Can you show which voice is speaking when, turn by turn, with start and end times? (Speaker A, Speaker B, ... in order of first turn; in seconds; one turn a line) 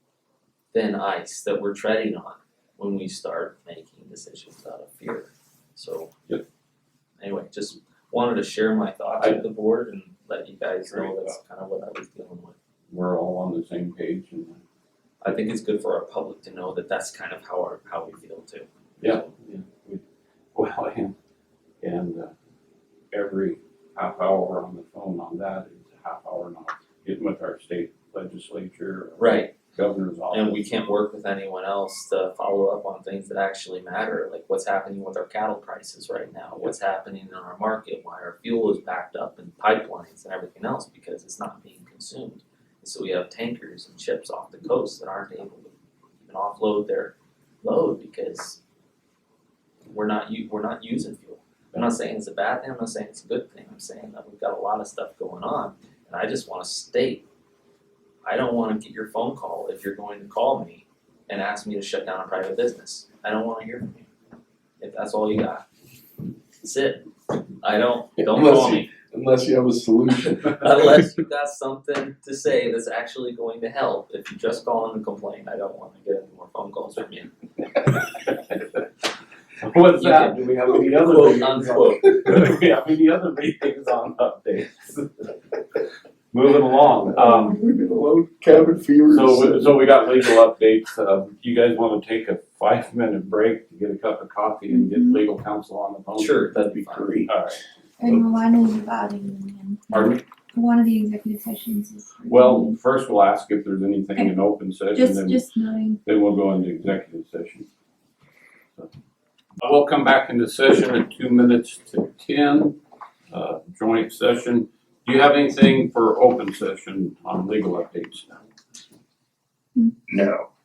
Speaker A: 0.7-6.1
Speaker A: 7.2-12.6
Speaker B: 10.9-11.3
Speaker B: 12.9-14.6
Speaker A: 15.2-19.4
Speaker B: 19.0-20.0
Speaker B: 20.6-21.1
Speaker B: 21.8-22.3
Speaker B: 23.1-30.7
Speaker A: 29.2-29.5
Speaker A: 30.3-45.7
Speaker A: 46.2-48.6
Speaker A: 49.9-57.3
Speaker A: 58.2-64.1
Speaker A: 64.8-65.7
Speaker A: 66.6-67.1
Speaker A: 67.6-68.9
Speaker C: 68.2-70.9
Speaker A: 70.5-77.3
Speaker B: 78.3-78.6
Speaker B: 79.6-85.3
Speaker A: 80.0-80.4
Speaker A: 81.0-82.0
Speaker B: 86.3-87.6
Speaker C: 87.1-89.8
Speaker B: 89.1-96.5
Speaker D: 94.7-95.2
Speaker A: 96.2-97.3
Speaker C: 96.6-97.3
Speaker B: 97.3-97.6
Speaker D: 98.0-102.8
Speaker B: 99.9-100.2
Speaker B: 102.3-105.4
Speaker D: 104.9-106.0
Speaker B: 106.0-107.7
Speaker B: 109.6-112.8
Speaker B: 113.3-118.3
Speaker C: 120.1-120.4